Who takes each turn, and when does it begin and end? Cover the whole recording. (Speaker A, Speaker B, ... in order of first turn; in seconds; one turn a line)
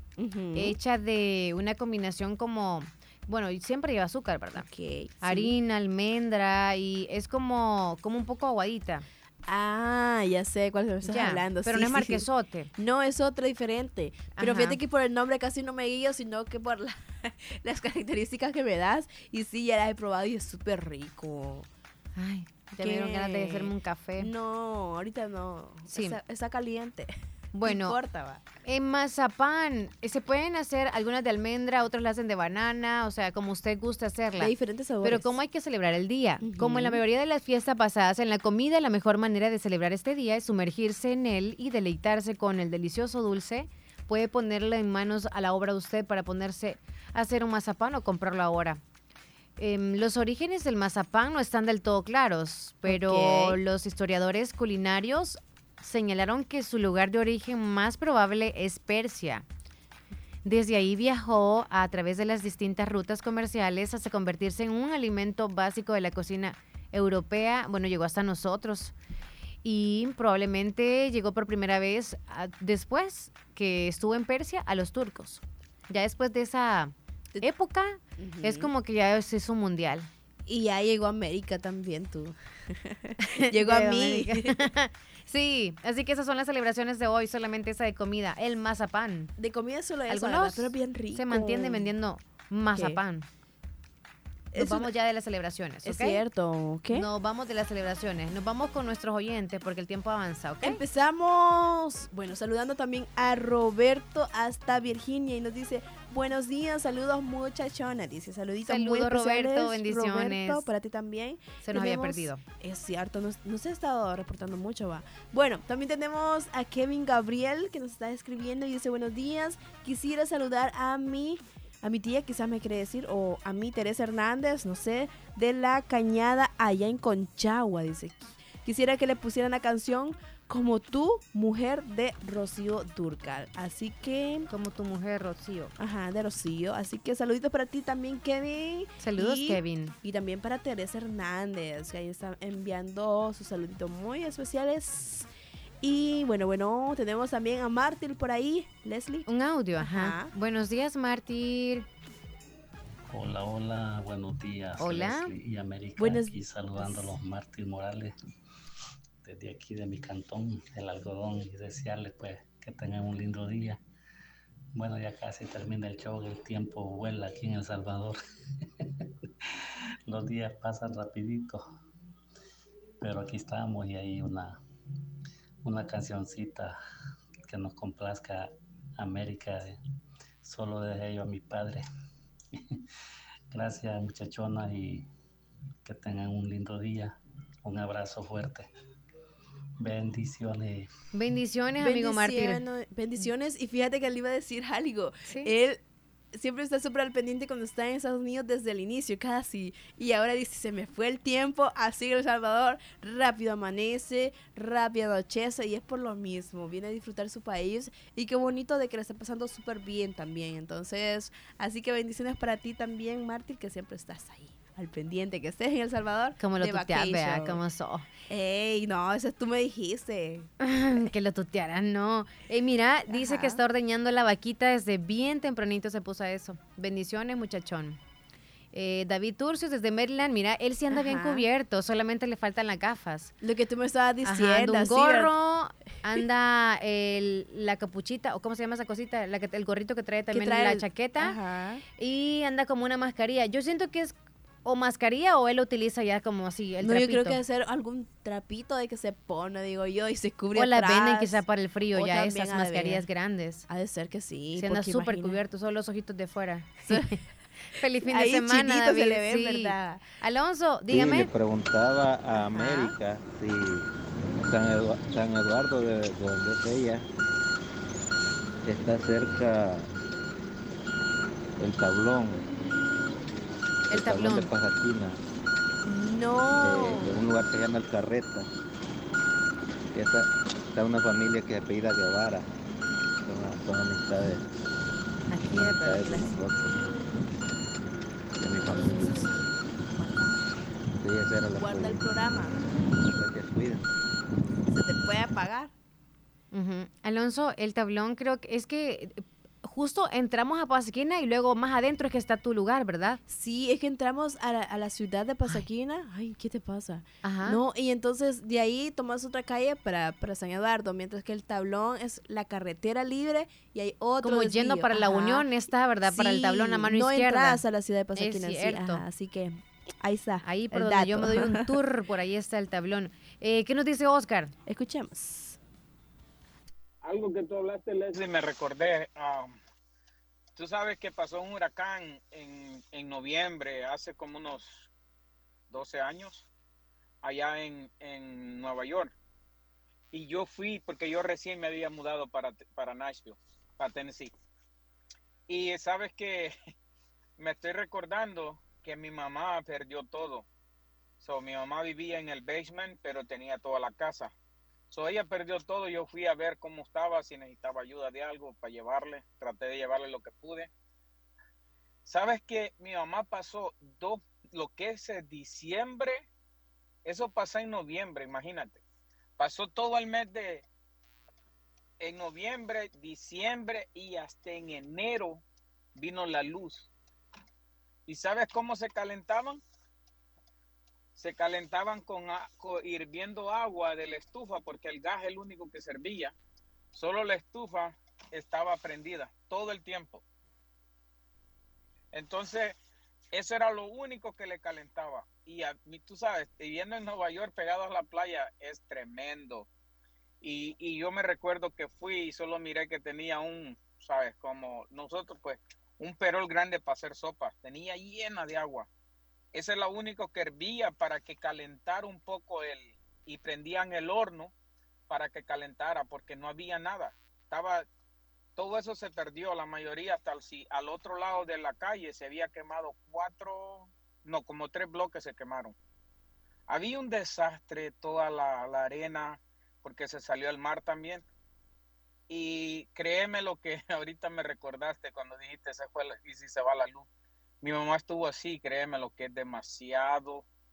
Speaker A: 0.2-0.8
Speaker B: 0.6-4.7
Speaker A: 4.5-5.5
Speaker B: 5.2-9.1
Speaker A: 9.4-12.2
Speaker B: 11.0-12.7
Speaker A: 12.8-21.7
Speaker B: 14.3-14.8
Speaker B: 22.1-24.3
Speaker A: 22.8-27.1
Speaker B: 25.9-26.2
Speaker B: 27.5-27.9
Speaker A: 27.6-28.4
Speaker B: 28.6-34.5
Speaker A: 34.4-35.3
Speaker B: 35.0-48.8
Speaker A: 36.4-37.0
Speaker B: 49.6-59.5
Speaker A: 52.9-53.6
Speaker B: 60.4-68.9
Speaker B: 69.6-80.1
Speaker A: 78.2-78.7
Speaker A: 80.5-84.5
Speaker B: 83.5-89.3
Speaker A: 89.4-91.9
Speaker B: 90.1-93.2
Speaker A: 94.5-94.9
Speaker B: 94.6-96.2
Speaker A: 95.8-97.1
Speaker B: 96.9-100.8
Speaker A: 100.6-134.5
Speaker B: 108.7-110.7
Speaker B: 111.6-112.4
Speaker B: 134.5-135.7
Speaker A: 135.8-145.3
Speaker B: 139.0-139.9
Speaker A: 145.8-149.2
Speaker B: 149.3-151.8
Speaker A: 149.8-150.3
Speaker C: 153.1-158.1
Speaker B: 154.8-155.3
Speaker A: 156.0-157.1
Speaker C: 159.2-163.8
Speaker C: 164.7-168.2
Speaker C: 170.1-171.6
Speaker C: 173.0-174.6
Speaker C: 175.6-176.8
Speaker C: 177.5-179.8
Speaker C: 180.4-181.8
Speaker C: 183.5-185.1
Speaker C: 185.8-188.7
Speaker C: 189.8-190.9
Speaker B: 191.1-192.6
Speaker A: 191.8-195.8
Speaker A: 196.3-217.6
Speaker B: 216.4-218.1
Speaker A: 218.3-220.5
Speaker B: 220.6-228.0
Speaker A: 223.1-223.6
Speaker B: 228.7-233.3
Speaker A: 230.9-231.4
Speaker A: 233.4-235.3
Speaker B: 234.2-241.4
Speaker A: 240.3-241.8
Speaker B: 242.0-247.4
Speaker A: 246.8-251.4
Speaker B: 250.5-253.7
Speaker A: 251.9-253.1
Speaker A: 253.7-255.4
Speaker B: 254.6-257.1
Speaker B: 257.8-261.3
Speaker A: 258.0-260.0
Speaker D: 260.9-267.1
Speaker A: 262.5-262.9
Speaker D: 268.6-269.9
Speaker D: 271.6-272.5
Speaker D: 273.9-275.2
Speaker B: 273.9-274.5
Speaker A: 275.8-277.1
Speaker D: 276.6-278.5
Speaker D: 279.9-282.5
Speaker D: 283.2-284.5
Speaker B: 285.3-286.3
Speaker D: 285.4-286.8
Speaker D: 288.4-289.4
Speaker A: 288.6-290.4
Speaker D: 291.0-292.1
Speaker A: 291.5-292.6
Speaker D: 292.9-293.8
Speaker A: 294.7-295.7
Speaker B: 296.5-303.2
Speaker A: 303.3-315.5
Speaker B: 307.2-307.6
Speaker B: 314.2-317.6
Speaker A: 316.0-321.7
Speaker B: 318.1-319.0
Speaker B: 320.4-324.5
Speaker A: 324.6-325.6
Speaker E: 327.0-329.6
Speaker E: 330.5-334.9
Speaker E: 335.7-336.5
Speaker E: 337.2-339.1
Speaker E: 340.1-344.3
Speaker E: 345.5-346.5
Speaker E: 347.4-350.4
Speaker E: 351.2-354.3
Speaker E: 354.9-360.7
Speaker E: 362.0-366.2
Speaker E: 367.0-368.8
Speaker E: 369.4-370.6
Speaker E: 372.0-375.4
Speaker E: 375.9-376.9
Speaker E: 378.1-379.6
Speaker E: 381.1-386.3
Speaker E: 386.9-390.2
Speaker E: 392.1-392.8
Speaker E: 393.3-399.7
Speaker E: 400.4-408.9
Speaker E: 409.5-414.5
Speaker E: 415.1-417.9
Speaker E: 418.6-425.7
Speaker E: 426.7-431.2
Speaker E: 432.3-437.1
Speaker E: 437.6-440.4